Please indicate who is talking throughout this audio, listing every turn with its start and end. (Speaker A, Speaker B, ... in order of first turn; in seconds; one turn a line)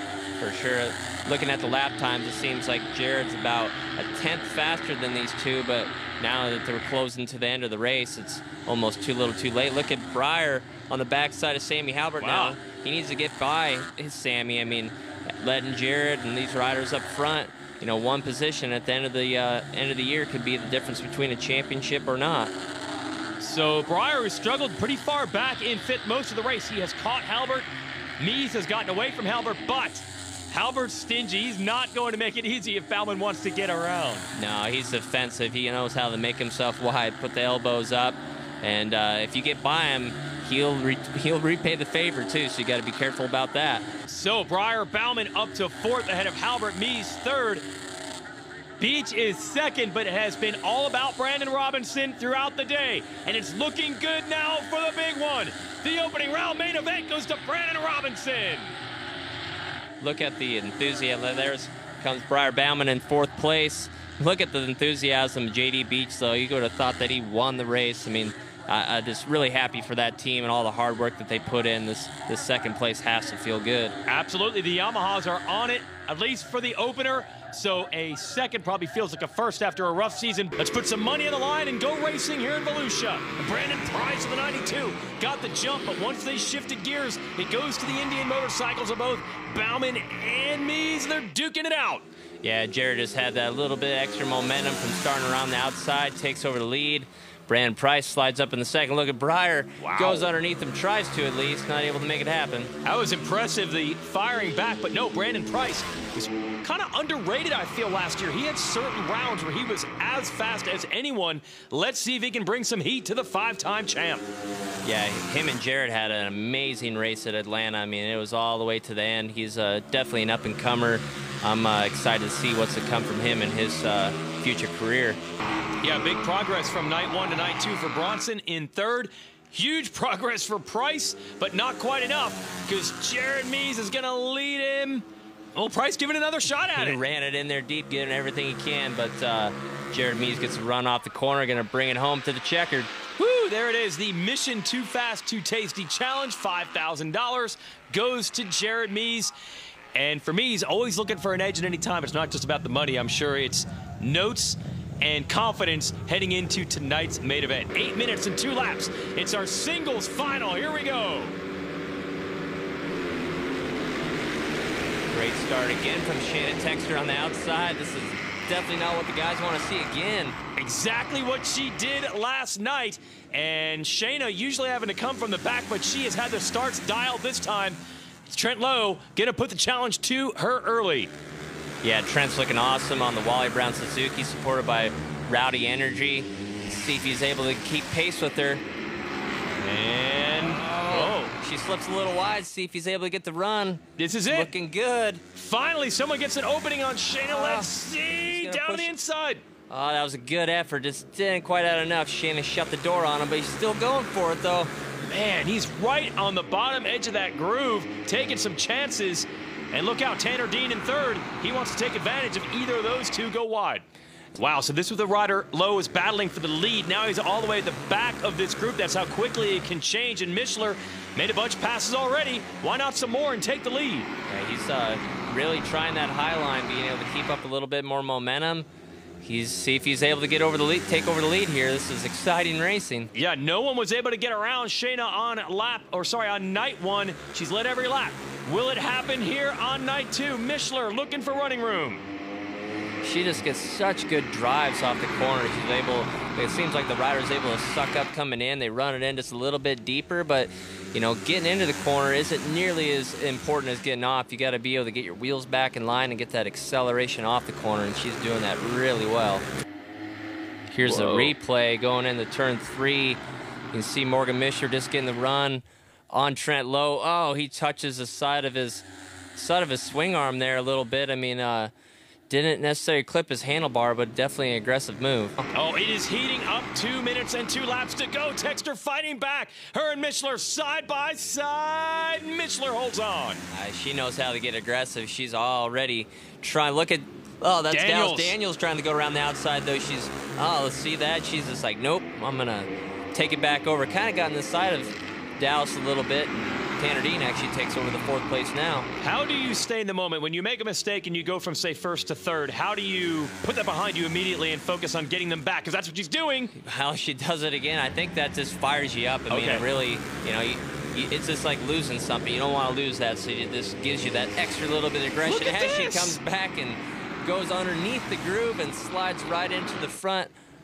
Speaker A: 0.4-22.5
Speaker B: 12.2-12.6
Speaker B: 23.4-34.3
Speaker A: 34.3-43.8
Speaker B: 44.1-47.6
Speaker B: 48.8-58.8
Speaker A: 60.0-73.9
Speaker B: 74.0-92.0
Speaker A: 92.4-102.7
Speaker B: 99.8-100.3
Speaker B: 102.8-114.3
Speaker A: 114.8-125.2
Speaker B: 125.8-137.0
Speaker A: 136.8-142.9
Speaker B: 143.2-149.3
Speaker B: 149.9-161.3
Speaker A: 165.1-170.3
Speaker B: 170.6-181.1
Speaker A: 181.8-188.6
Speaker B: 189.6-191.3
Speaker A: 190.4-195.2
Speaker B: 194.0-194.5
Speaker B: 195.3-199.4
Speaker A: 197.3-198.9
Speaker A: 199.7-204.7
Speaker B: 205.1-213.8
Speaker B: 214.3-224.1
Speaker A: 224.3-228.7
Speaker A: 229.2-233.1
Speaker B: 233.1-242.0
Speaker A: 243.0-259.4
Speaker A: 260.7-263.2
Speaker B: 260.8-261.3
Speaker A: 263.7-271.7
Speaker A: 272.3-275.4
Speaker B: 275.5-283.4
Speaker A: 283.5-298.9
Speaker B: 287.7-288.4
Speaker B: 299.0-306.5
Speaker A: 306.6-320.3
Speaker B: 309.3-309.6
Speaker B: 315.2-316.2